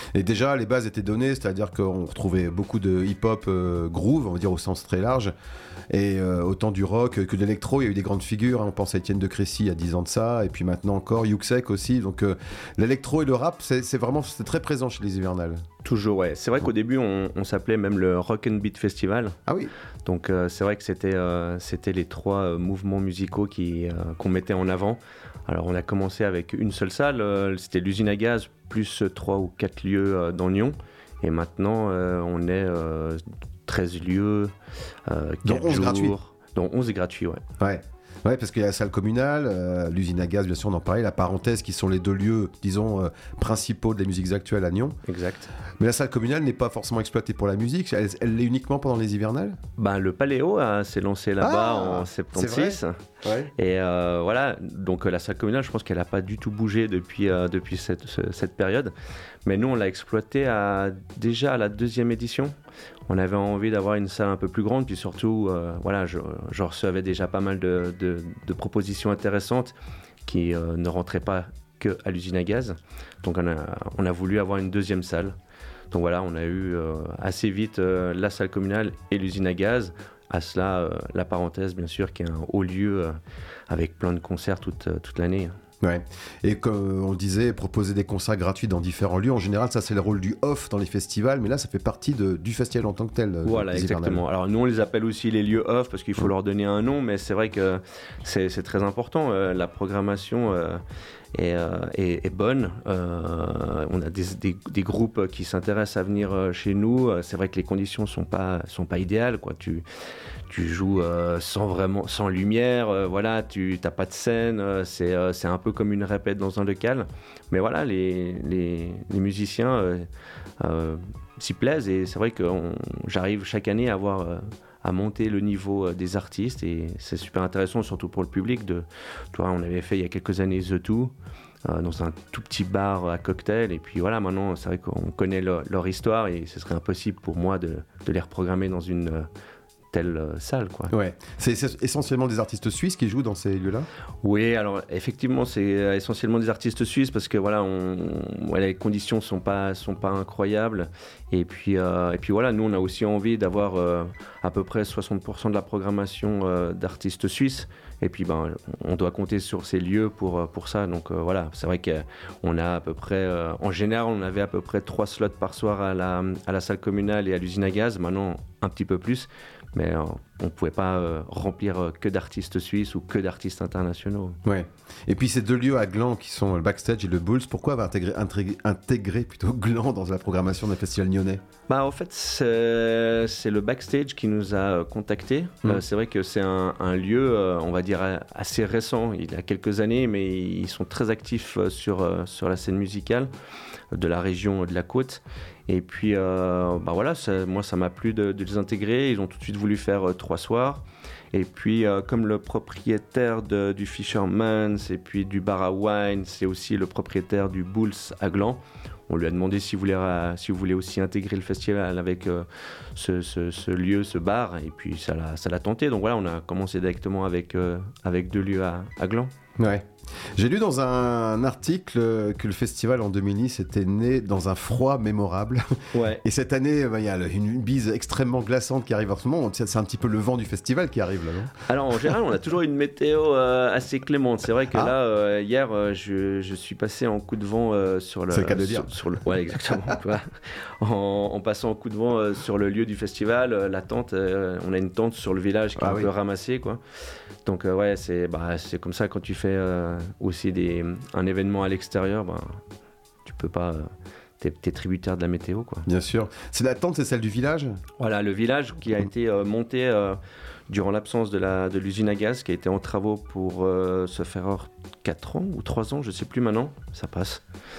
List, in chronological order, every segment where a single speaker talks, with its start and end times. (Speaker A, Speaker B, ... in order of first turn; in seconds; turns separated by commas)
Speaker A: 0.1-5.3, Speaker A: 5.9-15.6, Speaker B: 15.8-19.4, Speaker B: 20.0-34.5, Speaker B: 35.1-37.4, Speaker A: 35.4-36.1, Speaker A: 37.6-45.0, Speaker B: 45.0-45.5, Speaker A: 45.8-49.6, Speaker B: 49.8-52.9, Speaker A: 51.4-53.5, Speaker B: 53.5-58.9, Speaker B: 59.4-62.5, Speaker B: 63.1-69.7, Speaker B: 70.2-75.3, Speaker B: 75.9-83.2, Speaker B: 83.7-85.6, Speaker A: 85.8-94.2, Speaker B: 93.4-100.8, Speaker B: 101.3-109.8, Speaker B: 110.5-120.1, Speaker B: 120.6-131.1, Speaker B: 131.6-139.3, Speaker B: 139.9-140.9, Speaker A: 140.9-143.9, Speaker B: 144.2-174.4, Speaker A: 174.4-181.4, Speaker B: 181.7-193.3, Speaker B: 193.9-219.3, Speaker A: 219.6-231.5, Speaker B: 225.9-226.2, Speaker B: 231.7-240.2, Speaker A: 238.3-238.9, Speaker B: 240.8-246.8, Speaker A: 245.8-246.1, Speaker B: 247.4-252.6, Speaker B: 253.2-255.8, Speaker A: 255.8-257.8, Speaker B: 258.0-260.2, Speaker B: 260.7-267.4